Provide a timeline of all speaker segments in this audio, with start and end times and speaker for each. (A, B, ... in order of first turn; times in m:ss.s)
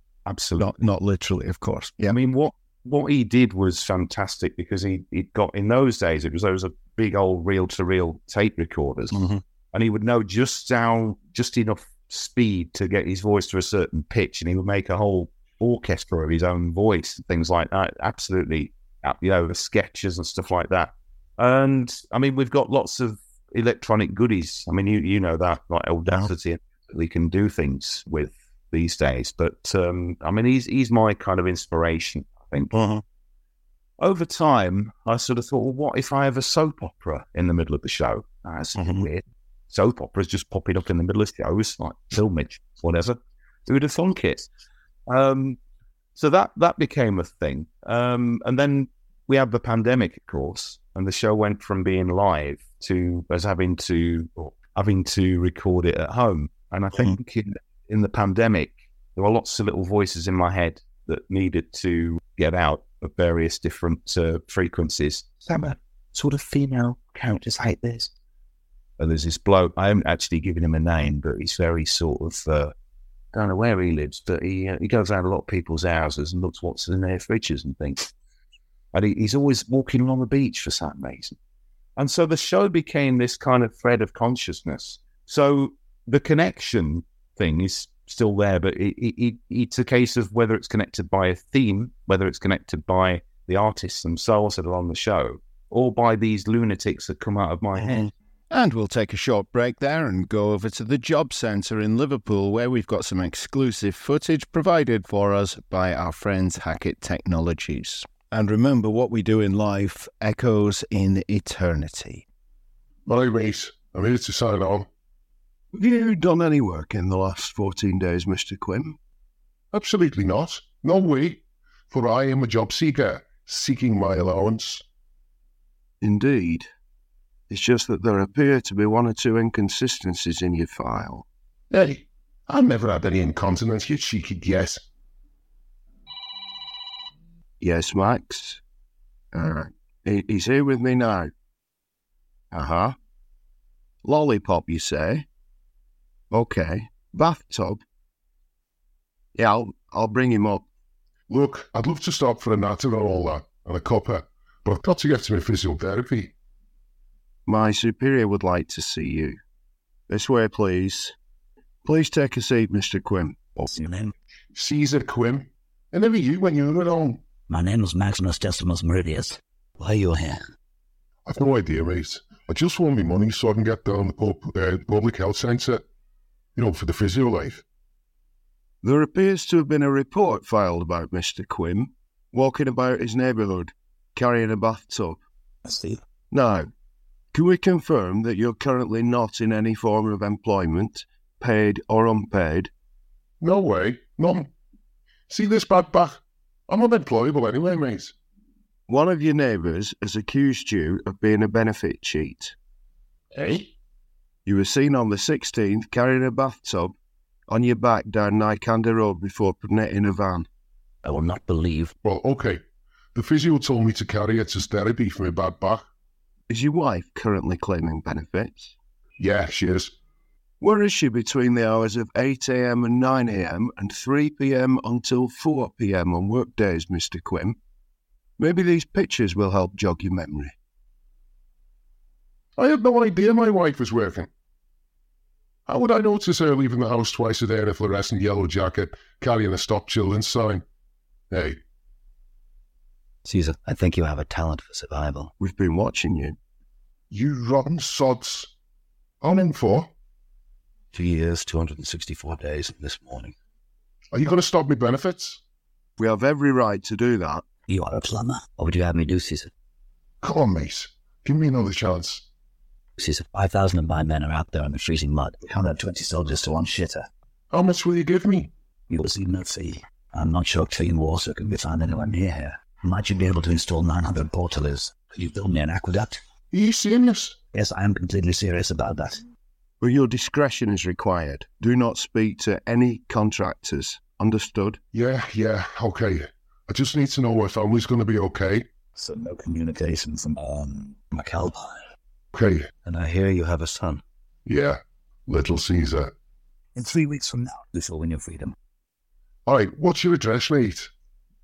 0:00.2-0:00.7 A
0:00.6-0:02.2 B
0:02.0-0:32.7 A
0:09.1-0:09.4 B
0:32.7-0:33.0 B
0:34.0-0:44.5 A
0:38.8-0:39.1 B
0:45.1-0:45.6 A
0:46.2-1:08.1 A
1:09.0-1:12.7 A
1:13.3-1:18.1 A
1:18.9-1:21.4 A
1:22.0-1:38.1 A
1:37.8-1:52.2 B
1:53.0-1:54.9 C
1:55.7-1:59.0 D
1:59.7-2:04.8 C
2:06.0-2:06.7 D
2:07.5-2:11.3 D
2:11.7-2:14.8 C
2:17.6-2:18.6 D
2:19.3-2:21.3 D
2:22.5-2:23.0 D
2:24.0-2:25.2 D
2:26.3-2:27.8 D
2:29.3-2:30.7 D
2:31.3-2:36.3 C
2:37.4-2:39.4 D
2:40.1-2:41.1 D
2:41.8-2:43.7 D
2:43.7-2:44.1 E
2:44.5-2:47.2 C
2:47.5-2:50.5 E
2:51.3-2:55.8 C
2:56.6-2:57.6 C
2:58.8-3:05.2 D
3:05.6-3:06.0 E
3:06.3-3:06.7 D
3:07.3-3:12.7 D
3:13.4-3:14.5 C
3:15.3-3:18.1 C
3:18.9-3:22.6 D
3:23.3-3:23.7 C
3:24.4-3:26.9 D
3:27.5-3:30.5 D
3:31.0-3:31.9 E
3:32.0-3:32.6 C
3:33.1-3:35.8 C
3:36.5-3:38.7 D
3:39.2-3:39.9 C
3:40.6-3:47.6 D
3:48.4-3:50.5 D
3:52.6-3:54.3 C
3:55.6-4:00.6 C
4:01.3-4:01.6 C
4:03.2-4:05.3 E
4:05.4-4:06.4 D
4:07.1-4:08.5 C
4:09.2-4:09.9 C
4:10.9-4:13.3 E
4:14.1-4:15.4 C
4:16.0-4:17.4 D
4:17.7-4:19.5 E
4:20.2-4:22.2 C
4:23.0-4:27.1 E
4:27.5-4:28.5 C
4:28.9-4:36.2 E
4:36.5-4:37.4 C
4:37.5-4:39.2 E
4:39.8-4:44.8 D
4:44.9-4:48.6 C
4:48.9-4:51.8 E
4:52.3-4:52.7 C
4:52.8-4:54.0 E
4:54.4-4:56.1 C
4:56.8-4:58.5 E
4:59.4-5:00.9 C